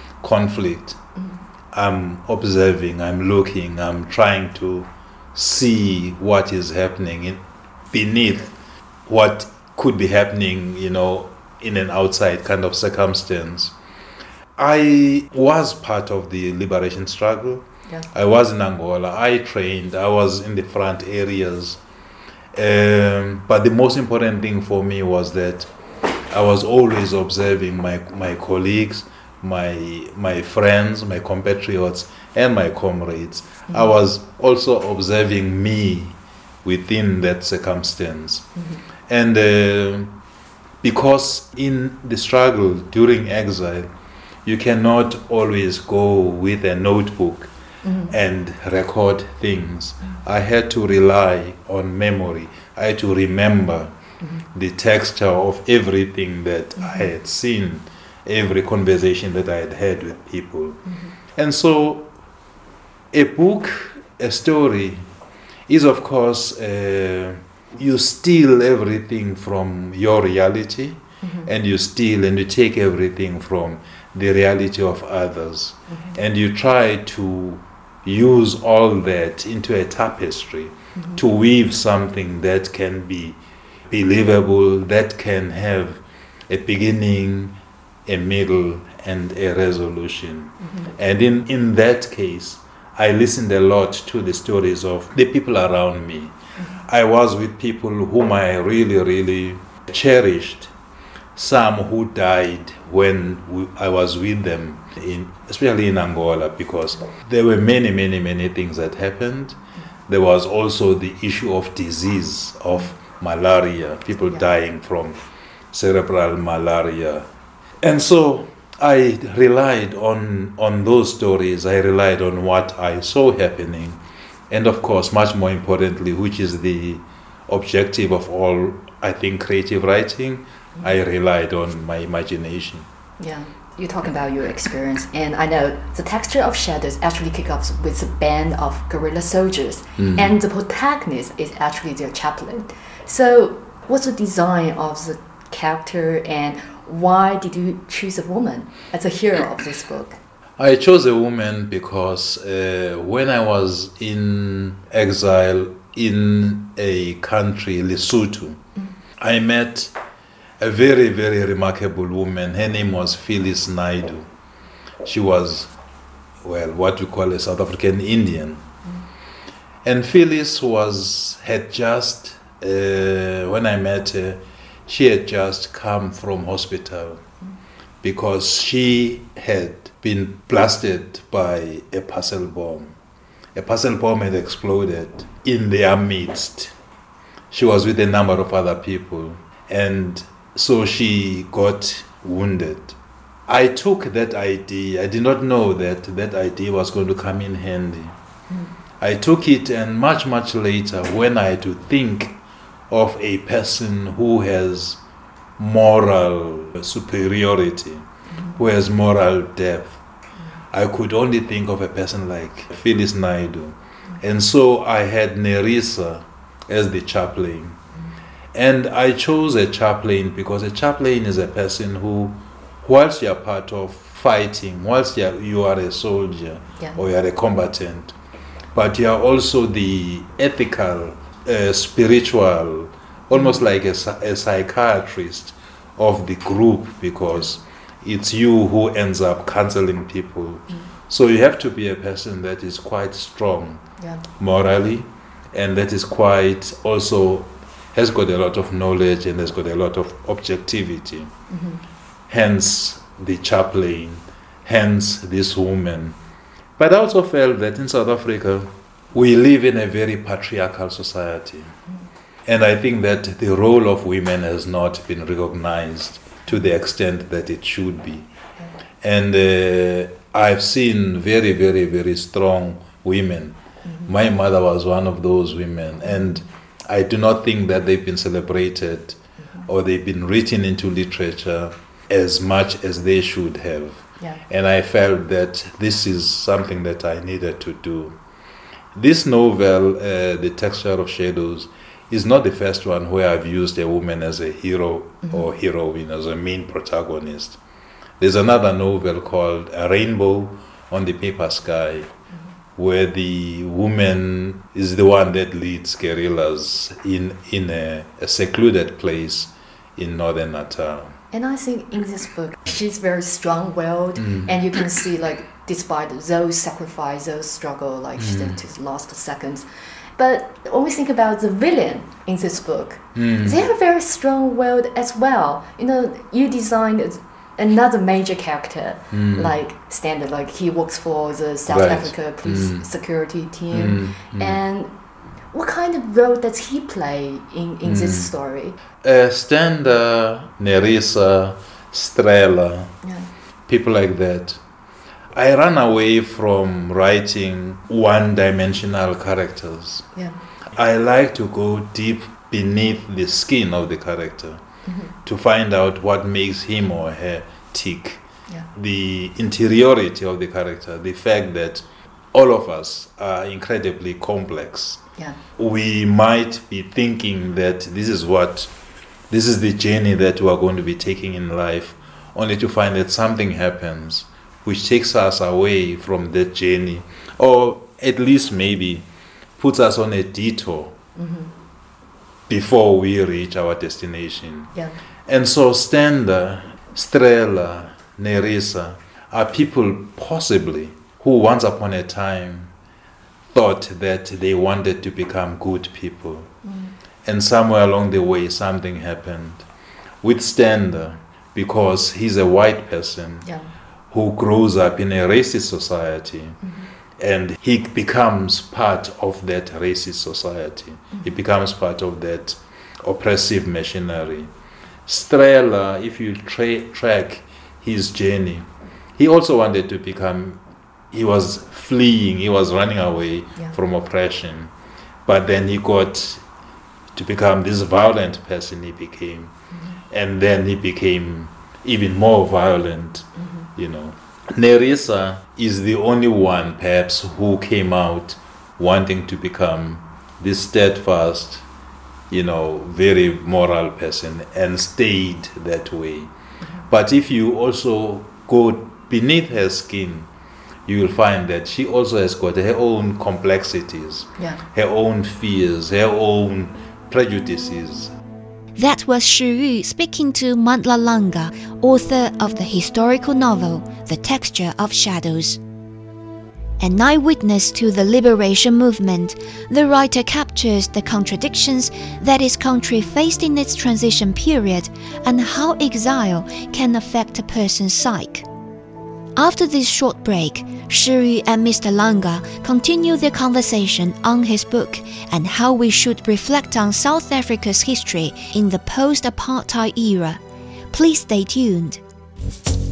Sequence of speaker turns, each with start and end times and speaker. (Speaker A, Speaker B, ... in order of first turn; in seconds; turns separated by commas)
Speaker A: 0.2-1.0, Speaker A: 1.7-8.6, Speaker A: 9.1-13.8, Speaker A: 14.6-21.8, Speaker A: 22.5-25.7, Speaker A: 26.3-38.5, Speaker A: 39.1-40.1, Speaker A: 40.8-43.9, Speaker A: 44.5-47.5, Speaker B: 47.8-48.1, Speaker A: 48.1-53.9, Speaker A: 54.5-60.8, Speaker B: 56.8-57.1, Speaker A: 61.3-62.1, Speaker A: 63.1-65.1, Speaker A: 65.7-83.4, Speaker B: 71.2-71.5, Speaker A: 83.9-96.3, Speaker A: 96.8-100.7, Speaker A: 101.4-115.2, Speaker A: 115.7-117.3, Speaker A: 117.8-124.0, Speaker A: 124.5-132.9, Speaker B: 133.2-150.2, Speaker A: 140.0-140.3, Speaker A: 150.6-158.6, Speaker A: 159.2-159.9, Speaker A: 160.6-164.3, Speaker A: 165.0-165.7, Speaker A: 166.4-168.6, Speaker A: 169.8-177.2, Speaker A: 178.0-182.9, Speaker A: 183.6-186.7, Speaker A: 187.5-193.0, Speaker A: 193.5-198.2, Speaker A: 199.0-202.4, Speaker A: 202.9-205.0, Speaker A: 205.6-210.0, Speaker B: 208.3-208.6, Speaker A: 210.7-217.8, Speaker A: 218.5-228.2, Speaker A: 228.8-243.8, Speaker B: 233.3-233.6, Speaker A: 244.4-251.3, Speaker B: 251.5-251.8, Speaker A: 252.3-256.2, Speaker A: 256.8-261.8, Speaker A: 262.5-268.3, Speaker A: 269.0-288.2, Speaker A: 288.9-297.6, Speaker A: 298.2-302.1, Speaker A: 302.8-311.2, Speaker B: 311.3-334.9, Speaker A: 314.2-314.5, Speaker A: 318.2-318.6, Speaker A: 323.1-323.6, Speaker A: 329.1-329.5, Speaker A: 331.7-332.9, Speaker A: 333.7-334.6, Speaker B: 335.5-338.8, Speaker A: 337.9-338.3, Speaker A: 339.0-342.9, Speaker B: 343.0-343.3, Speaker A: 343.7-344.6, Speaker A: 345.3-350.1, Speaker A: 350.7-354.6, Speaker B: 354.9-355.1, Speaker A: 355.2-358.2, Speaker A: 358.8-365.0, Speaker A: 365.6-368.7, Speaker A: 369.3-379.1, Speaker A: 379.6-381.0, Speaker B: 381.2-381.5, Speaker A: 382.5-384.7, Speaker A: 385.3-392.7, Speaker A: 393.5-396.5, Speaker B: 396.6-396.9, Speaker A: 397.2-399.7, Speaker A: 400.2-403.5, Speaker A: 404.1-406.6, Speaker A: 407.2-414.5, Speaker A: 415.1-420.6, Speaker A: 421.1-424.7, Speaker A: 425.3-426.4, Speaker A: 427.1-429.5, Speaker A: 430.1-441.6, Speaker A: 442.3-446.3, Speaker A: 446.9-450.3, Speaker A: 450.9-458.1, Speaker C: 458.8-465.6, Speaker C: 466.8-478.5, Speaker C: 479.4-490.4, Speaker C: 490.9-492.0